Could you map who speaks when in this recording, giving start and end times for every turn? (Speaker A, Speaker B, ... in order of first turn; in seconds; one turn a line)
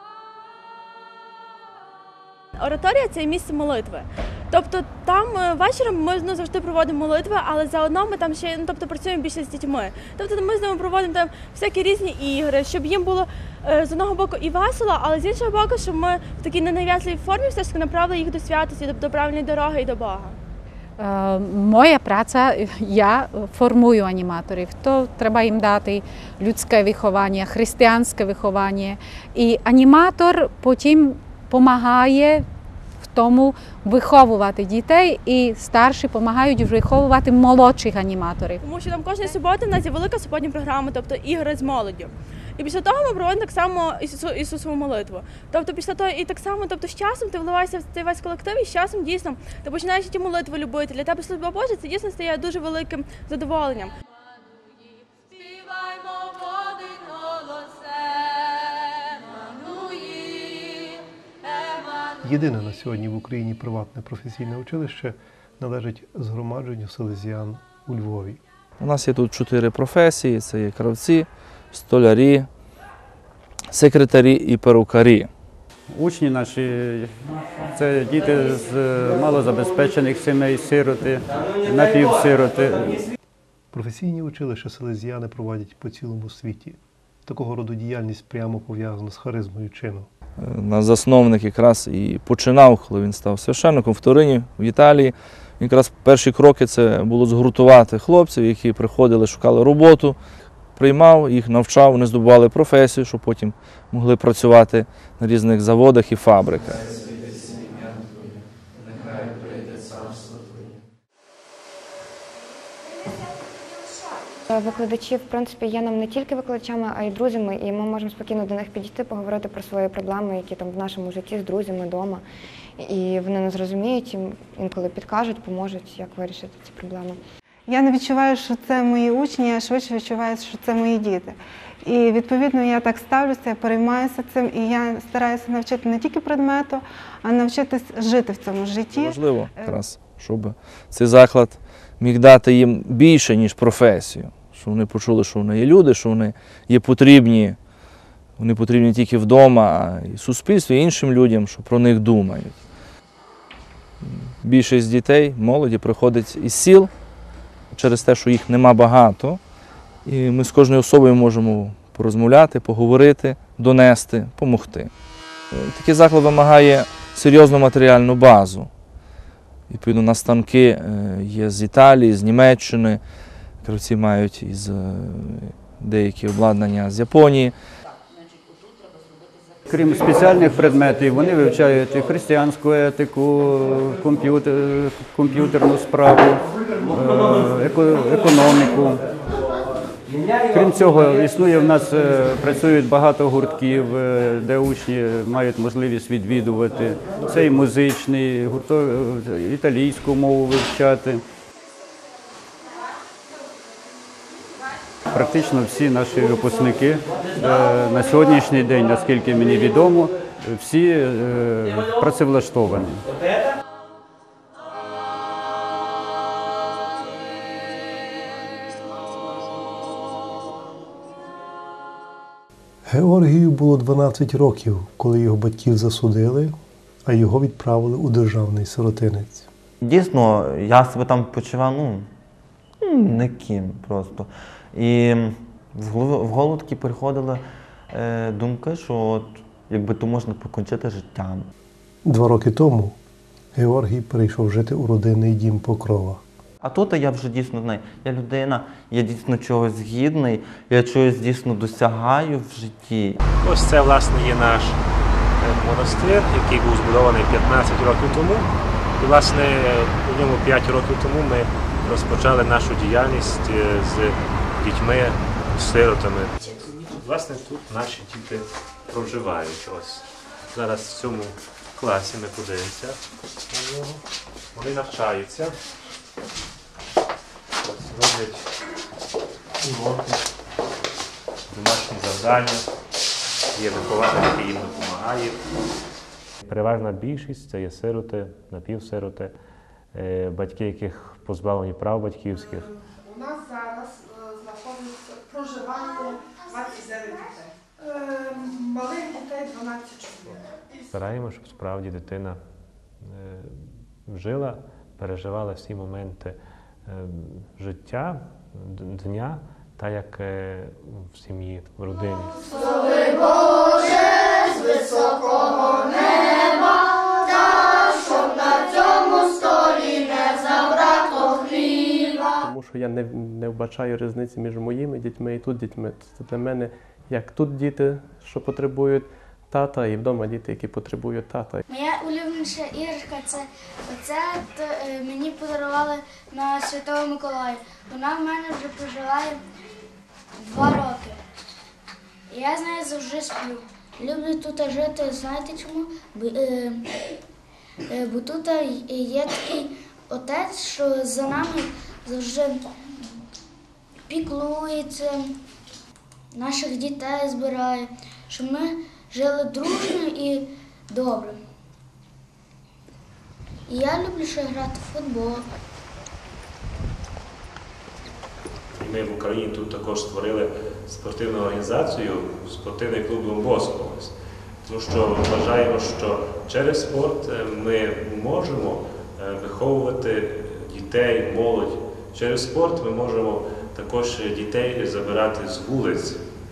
Speaker A: 2.6-20.4
Speaker B: 21.0-32.5
Speaker B: 33.1-38.6
Speaker A: 38.6-53.9
Speaker C: 62.2-68.4
Speaker D: 68.8-72.5
Speaker D: 73.7-75.3
Speaker E: 75.9-77.1
Speaker E: 77.7-83.0
Speaker C: 83.7-90.1
Speaker D: 90.4-100.2
Speaker D: 100.8-106.9
Speaker F: 114.5-122.2
Speaker F: 122.8-127.2
Speaker G: 127.7-131.3
Speaker G: 131.9-139.1
Speaker D: 138.9-147.6
Speaker D: 148.4-152.6
Speaker D: 154.0-156.9
Speaker D: 157.7-159.4
Speaker D: 160.1-164.9
Speaker D: 165.5-168.7
Speaker D: 169.7-173.0
Speaker D: 173.6-177.5
Speaker E: 179.7-189.0
Speaker E: 190.5-201.2
Speaker E: 205.1-213.0
Speaker C: 222.9-229.5
Speaker H: 229.8-232.1
Speaker H: 232.8-241.5
Speaker C: 242.1-243.0
Speaker C: 243.6-246.2
Speaker H: 246.6-253.2
Speaker I: 253.4-254.8
Speaker I: 255.4-273.0
Speaker I: 273.5-274.0
Speaker I: 274.5-275.6
Speaker I: 277.6-278.5
Speaker I: 279.6-280.2
Speaker I: 281.5-282.7
Speaker I: 283.5-285.4
Speaker I: 286.5-289.3
Speaker I: 289.9-292.7
Speaker J: 293.1-300.1
Speaker I: 300.9-302.4
Speaker I: 303.0-312.5
Speaker K: 322.4-331.6
Speaker L: 331.7-339.4
Speaker L: 340.4-341.2
Speaker L: 342.3-346.8
Speaker L: 347.9-352.6
Speaker L: 354.1-355.2
Speaker L: 356.3-361.4
Speaker L: 363.7-365.4
Speaker I: 368.8-374.1
Speaker I: 374.7-386.2